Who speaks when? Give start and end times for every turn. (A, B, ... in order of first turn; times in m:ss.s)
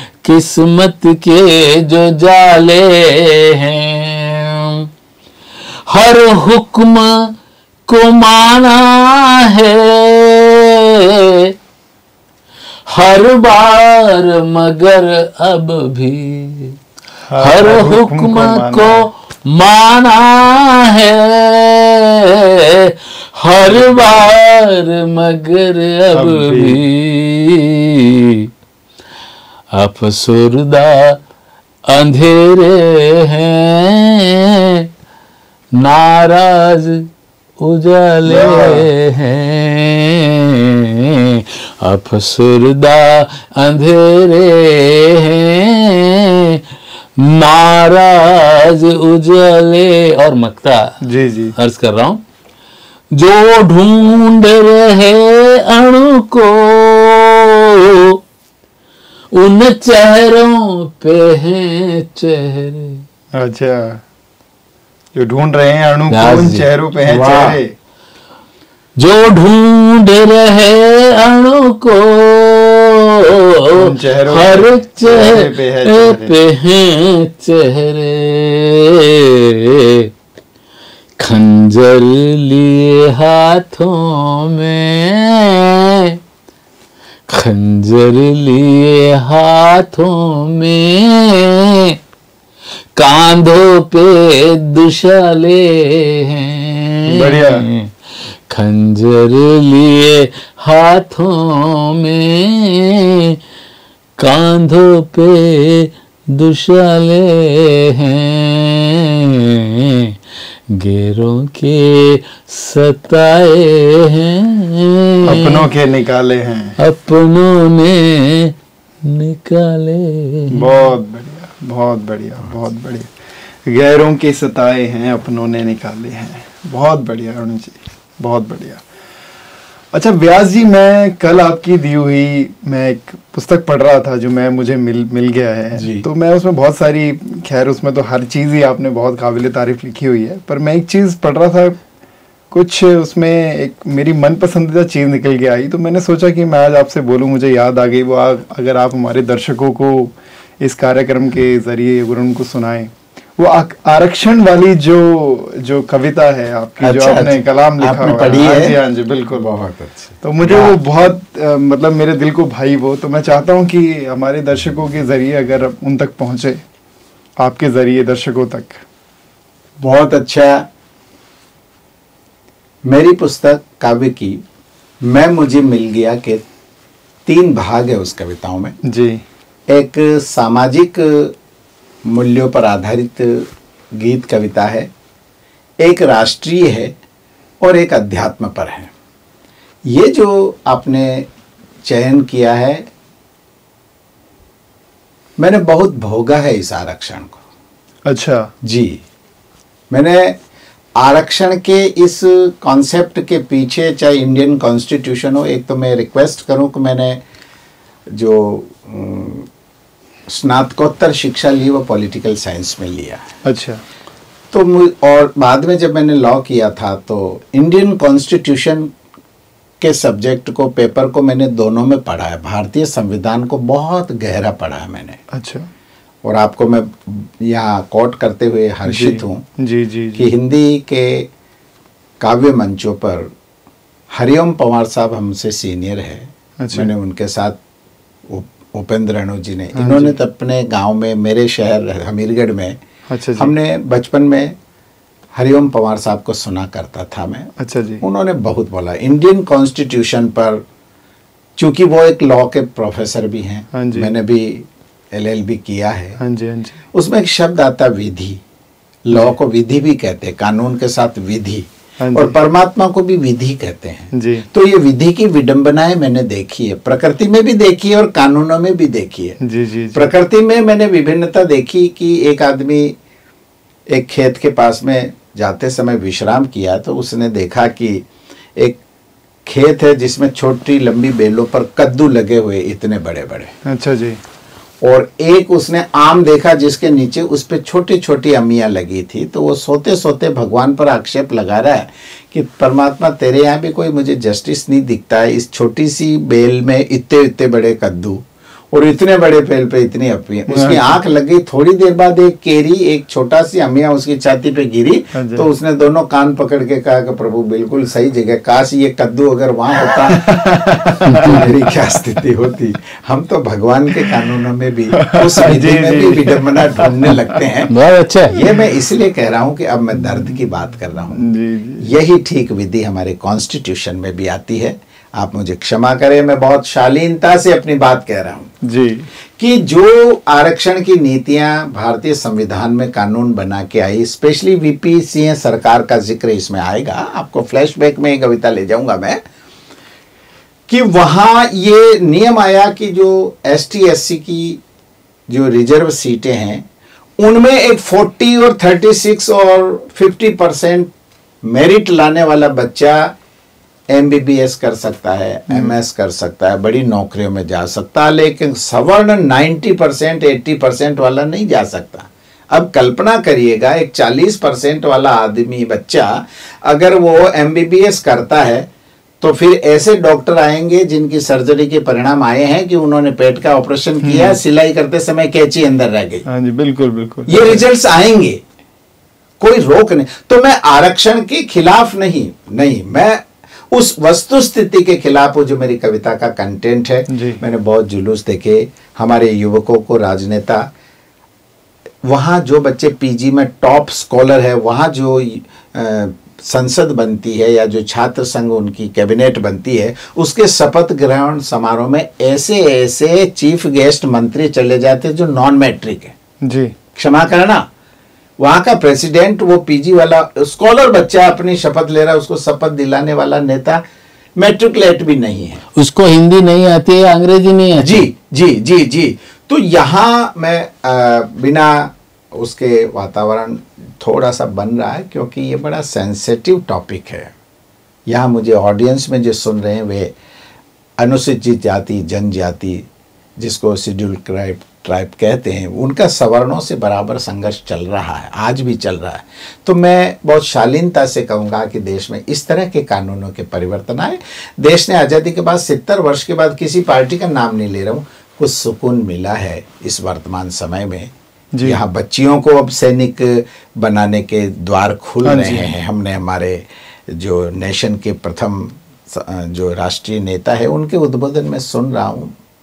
0:00.2-0:04.9 A
0:05.9-0:07.3 A
0:07.9-0:11.5 A
0:12.9-0:16.8 A
0:17.3-0:19.1 B
0:17.4-0:28.5 A
0:26.1-0:26.8 B
0:29.7-0:31.2 A
0:31.9-0:34.9 A
0:35.8-0:37.1 A
0:37.6-0:46.6 A
0:38.3-0:38.8 C
0:38.3-0:38.9 B
0:47.2-0:51.0 A
0:51.0-0:51.6 B
0:51.6-0:52.2 A
0:53.1-0:58.2 A
0:59.3-1:03.0 A
1:03.4-1:04.0 B
1:05.1-1:07.7 B
1:06.1-1:07.2 A
1:07.1-1:07.6 C
1:09.0-1:20.1 A
1:13.8-1:16.4 B
1:21.2-1:26.2 A
1:27.3-1:32.0 A
1:33.0-1:37.9 A
1:37.1-1:37.7 B
1:38.5-1:43.4 A
1:44.2-1:50.2 A
1:50.8-1:55.7 A
1:55.2-1:56.8 B
1:56.8-2:00.8 A
2:00.5-2:03.1 B
2:03.6-2:08.8 B
2:09.9-2:21.8 B
2:15.8-2:16.0 C
2:22.5-2:39.5 B
2:36.8-2:38.8 C
2:39.3-2:40.8 C
2:40.2-2:46.6 B
2:47.4-2:48.8 B
2:49.8-2:50.6 C
2:52.9-2:54.4 C
2:55.0-2:56.4 C
2:57.3-2:58.8 C
2:58.8-2:59.2 B
2:59.7-3:01.3 C
3:02.1-3:04.9 C
3:05.8-3:07.0 C
3:07.6-3:08.9 C
3:09.9-3:11.3 C
3:11.8-3:12.9 C
3:15.4-3:17.4 C
3:18.1-3:18.5 B
3:18.6-3:19.0 C
3:19.9-3:20.4 C
3:21.0-3:27.2 C
3:28.1-3:29.5 C
3:30.3-3:33.2 C
3:33.4-3:33.8 B
3:34.5-3:38.9 C
3:39.8-3:45.2 C
3:45.3-3:45.7 B
3:46.2-3:49.4 C
3:48.9-3:50.3 B
3:50.2-3:51.3 C
3:52.2-3:53.3 C
3:54.1-3:57.6 C
3:56.6-3:56.9 B
3:58.3-4:02.8 C
3:59.7-4:00.2 B
4:03.1-4:03.5 B
4:03.4-4:04.6 C
4:05.3-4:10.6 C
4:07.6-4:08.0 B
4:11.6-4:16.2 C
4:13.7-4:14.1 B
4:16.2-4:16.8 B
4:16.9-4:18.4 C
4:19.1-4:29.4 C
4:22.0-4:22.4 B
4:24.1-4:24.5 B
4:29.4-4:30.1 B
4:29.9-4:32.9 C
4:33.9-4:38.0 C
4:39.5-4:43.5 C
4:43.6-4:44.2 B
4:44.8-4:58.2 C
4:58.7-5:17.7 C
5:00.5-5:01.0 B
5:05.1-5:05.5 B
5:10.1-5:12.2 B
5:11.1-5:11.4 A
5:14.9-5:17.4 B
5:17.7-5:18.4 A
5:18.3-5:21.3 C
5:21.1-5:21.9 B
5:21.8-5:28.5 C
5:28.6-5:29.1 B
5:29.4-5:39.2 C
5:40.7-5:44.6 C
5:45.3-5:46.6 C
5:47.2-5:50.9 C
5:51.4-5:53.1 C
5:53.9-6:08.7 C
5:55.5-5:55.8 B
6:09.2-6:16.3 C
6:14.0-6:14.4 B
6:16.3-6:17.6 B
6:17.3-6:18.4 C
6:19.4-6:30.7 C
6:27.1-6:27.4 B
6:32.0-6:46.2 C
6:46.4-6:46.7 B
6:47.0-6:47.6 C
6:48.4-6:53.8 C
6:54.4-6:55.6 C
6:55.8-6:58.0 A
6:57.8-7:07.3 C
7:08.1-7:10.1 C
7:11.0-7:12.9 C
7:13.4-7:31.1 C
7:31.5-7:31.8 B
7:31.6-7:42.3 C
7:35.2-7:35.7 B